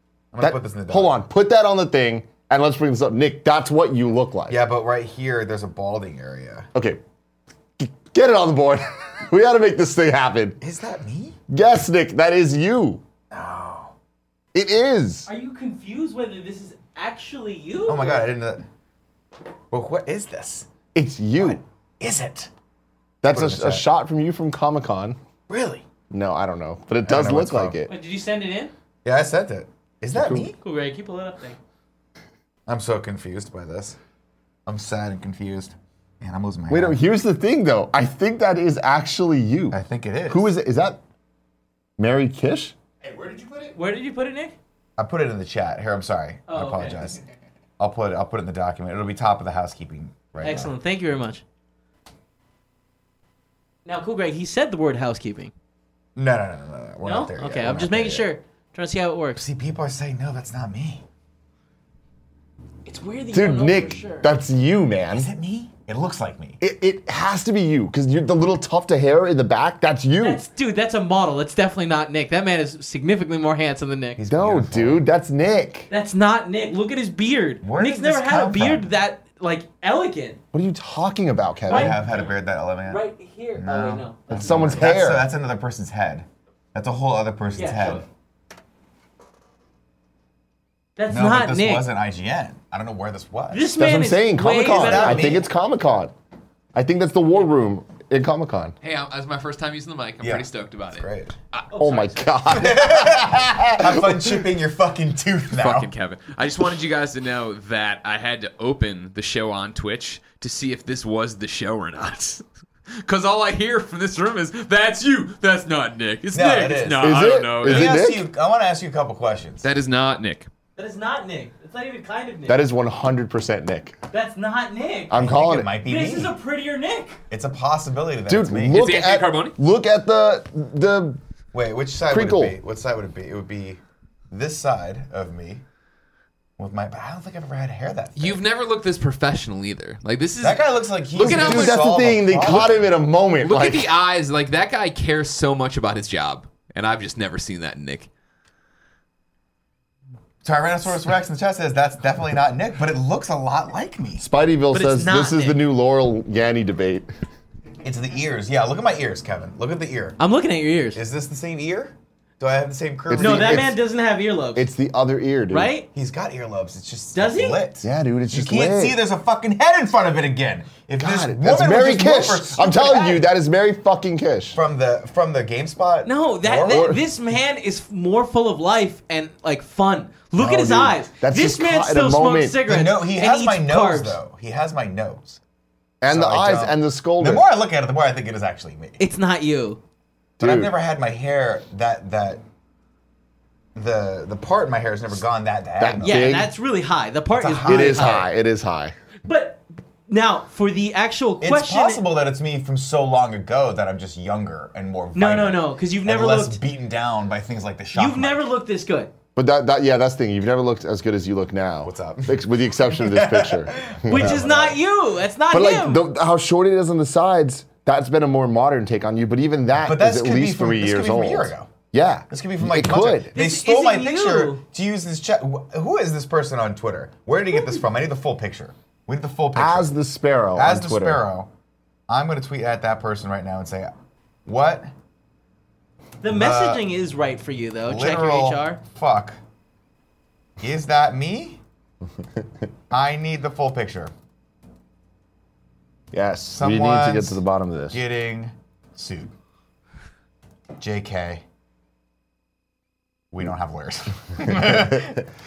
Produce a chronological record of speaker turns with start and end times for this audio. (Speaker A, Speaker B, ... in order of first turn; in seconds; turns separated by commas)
Speaker A: 0.3-1.3, Speaker B: 0.4-4.6, Speaker A: 4.5-6.7, Speaker B: 6.7-7.0, Speaker B: 7.8-10.6, Speaker A: 10.6-11.4, Speaker B: 11.5-13.0, Speaker A: 13.3-13.9, Speaker B: 14.5-15.3, Speaker C: 15.3-18.3, Speaker A: 17.9-18.6, Speaker A: 19.7-20.7, Speaker B: 20.9-21.6, Speaker A: 21.4-22.5, Speaker B: 23.2-25.2, Speaker A: 23.3-23.9, Speaker A: 25.5-25.9, Speaker B: 26.1-27.9, Speaker A: 27.0-27.8, Speaker C: 27.9-28.7, Speaker A: 29.0-30.6, Speaker B: 30.1-30.5, Speaker C: 30.6-31.6, Speaker A: 32.7-34.0, Speaker A: 34.6-37.0, Speaker B: 36.7-41.0, Speaker A: 39.7-40.5, Speaker B: 42.0-42.8, Speaker C: 43.7-44.5, Speaker A: 45.0-47.2, Speaker C: 46.5-47.1, Speaker A: 47.8-50.7, Speaker C: 50.4-51.4, Speaker C: 53.8-55.5, Speaker A: 56.1-58.3, Speaker C: 57.0-59.4, Speaker A: 59.4-61.0, Speaker C: 62.9-64.3, Speaker B: 63.3-65.3, Speaker A: 65.1-66.6, Speaker B: 66.6-70.4, Speaker C: 70.2-74.2, Speaker A: 74.2-75.0, Speaker B: 74.3-75.9, Speaker C: 75.9-80.4, Speaker A: 77.6-78.9, Speaker B: 80.5-82.0, Speaker C: 81.7-82.3, Speaker A: 81.7-83.0, Speaker C: 82.9-84.7, Speaker A: 83.6-88.0, Speaker B: 84.3-85.3, Speaker C: 87.5-88.0, Speaker C: 91.0-91.9, Speaker A: 91.1-93.7, Speaker C: 93.5-95.4, Speaker B: 93.8-96.1, Speaker A: 94.7-95.4, Speaker B: 96.7-98.7, Speaker D: 98.8-102.1, Speaker A: 100.2-101.3, Speaker C: 101.7-102.2, Speaker B: 101.7-104.4, Speaker A: 102.5-105.9, Speaker D: 105.6-112.4, Speaker D: 113.0-117.9, Speaker A: 116.3-119.7, Speaker B: 117.0-118.3, Speaker D: 119.6-120.5, Speaker C: 120.8-122.6, Speaker B: 122.5-124.0, Speaker C: 124.1-125.2, Speaker B: 125.1-125.8, Speaker A: 125.1-126.3, Speaker C: 125.8-127.2, Speaker A: 127.3-128.8, Speaker B: 128.3-131.2, Speaker D: 128.7-129.5, Speaker A: 131.5-135.6, Speaker B: 132.1-132.6, Speaker A: 136.6-138.4, Speaker D: 138.2-141.8, Speaker A: 140.4-142.8, Speaker B: 141.2-143.9, Speaker D: 143.4-148.1, Speaker A: 150.4-154.2, Speaker B: 154.2-157.1, Speaker C: 154.7-155.6, Speaker A: 157.8-160.2, Speaker C: 160.2-161.0, Speaker A: 160.9-163.8, Speaker B: 163.1-163.8, Speaker C: 163.2-164.7, Speaker B: 164.5-165.7, Speaker C: 165.5-165.9, Speaker A: 165.9-173.2, Speaker C: 167.1-167.6, Speaker B: 167.8-169.0, Speaker B: 171.0-174.6, Speaker A: 174.5-177.0, Speaker C: 176.0-184.2, Speaker B: 180.4-182.6, Speaker A: 182.7-185.4, Speaker B: 186.0-187.4, Speaker A: 186.1-189.0, Speaker C: 189.0-189.8, Speaker B: 190.4-190.7, Speaker A: 190.4-192.4, Speaker A: 193.8-196.4, Speaker B: 195.8-196.5, Speaker C: 196.0-198.2, Speaker A: 197.3-198.3, Speaker B: 197.7-198.9, Speaker C: 199.2-202.0, Speaker A: 201.4-208.5, Speaker C: 205.1-206.6, Speaker C: 207.9-209.1, Speaker B: 209.3-214.4, Speaker A: 211.8-214.8, Speaker C: 214.1-216.0, Speaker B: 215.5-223.3, Speaker A: 219.8-221.7, Speaker A: 222.3-229.9, Speaker C: 223.3-224.6, Speaker C: 227.5-227.8, Speaker B: 229.5-231.2, Speaker A: 230.5-231.5, Speaker A: 232.1-233.9, Speaker A: 234.4-234.9, Speaker C: 236.2-238.8, Speaker A: 236.3-236.8, Speaker A: 237.8-239.4, Speaker A: 240.6-241.6, Speaker A: 242.9-244.1, Speaker B: 246.1-248.0, Speaker A: 246.5-249.3, Speaker A: 250.8-251.4, Speaker A: 253.3-255.2, Speaker B: 254.4-255.2